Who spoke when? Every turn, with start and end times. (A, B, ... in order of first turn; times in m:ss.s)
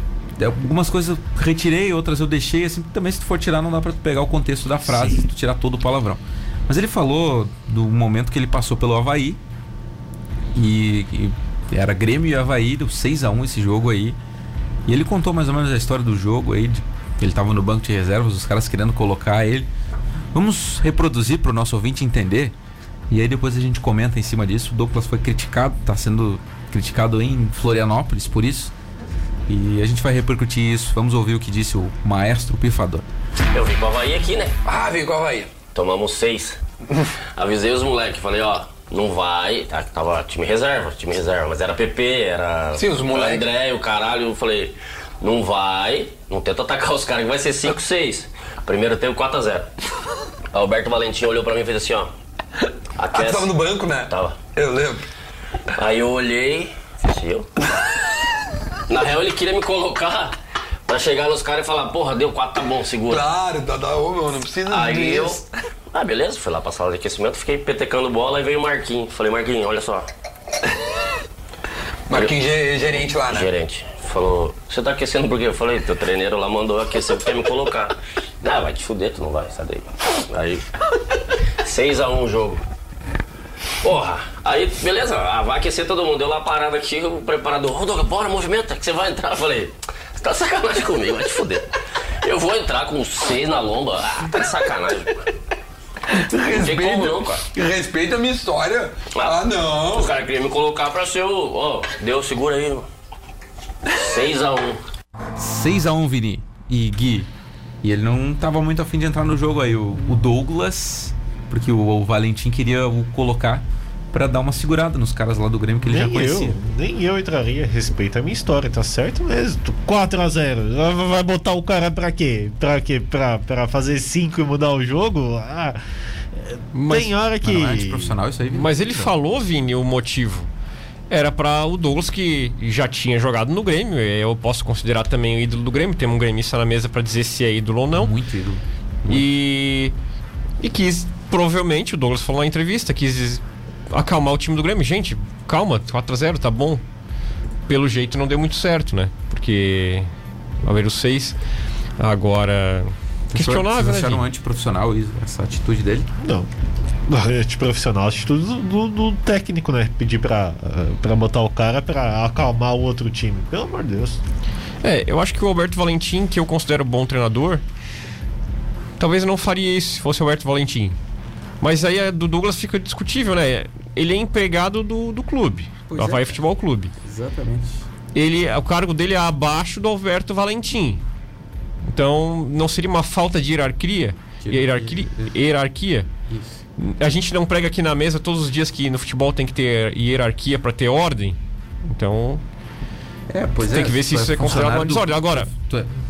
0:00.4-0:09.4 A
0:10.6-0:14.2 A
0:14.9-0:19.7 A
0:20.3-0:22.6 A
0:23.1-0:28.7 A
0:29.5-0:33.0 A
0:33.5-0:34.6 B
0:34.6-0:35.6 C
0:35.7-0:36.6 B
0:37.4-0:49.7 B
0:42.8-0:43.4 C
0:50.5-0:52.1 B
0:53.0-0:53.6 B
0:53.1-0:55.0 C
0:54.1-0:54.4 B
0:55.8-0:57.5 B
0:58.9-1:00.3 B
1:00.9-1:03.3 B
1:03.1-1:05.4 C
1:04.7-1:10.1 B
1:12.1-1:13.5 C
1:12.1-1:12.4 B
1:12.9-1:20.6 B
1:21.6-1:22.6 B
1:23.8-1:31.7 B
1:32.2-1:35.3 B
1:36.2-1:40.2 C
1:36.4-1:37.5 B
1:39.1-1:42.9 B
1:43.9-1:44.8 B
1:45.4-1:47.3 A
1:47.8-1:56.6 A
1:55.8-2:05.8 D
2:06.4-2:08.2 D
2:06.7-2:07.1 E
2:07.4-2:09.1 A
2:08.5-2:10.5 E
2:11.1-2:18.1 E
2:17.9-2:19.3 A
2:19.1-2:20.0 E
2:20.6-2:26.8 E
2:27.7-2:30.1 E
2:30.6-2:31.4 E
2:32.0-2:34.2 E
2:33.3-2:36.1 A
2:36.2-2:36.5 D
2:37.1-2:44.2 D
2:44.8-2:47.6 E
2:49.0-2:51.0 E
2:51.6-2:56.9 E
2:55.9-2:56.4 A
2:57.0-2:57.9 A
2:58.1-3:01.0 E
3:01.9-3:06.1 E
3:04.4-3:05.3 A
3:06.3-3:06.6 A
3:06.8-3:12.4 E
3:13.3-3:15.9 A
3:13.6-3:15.5 E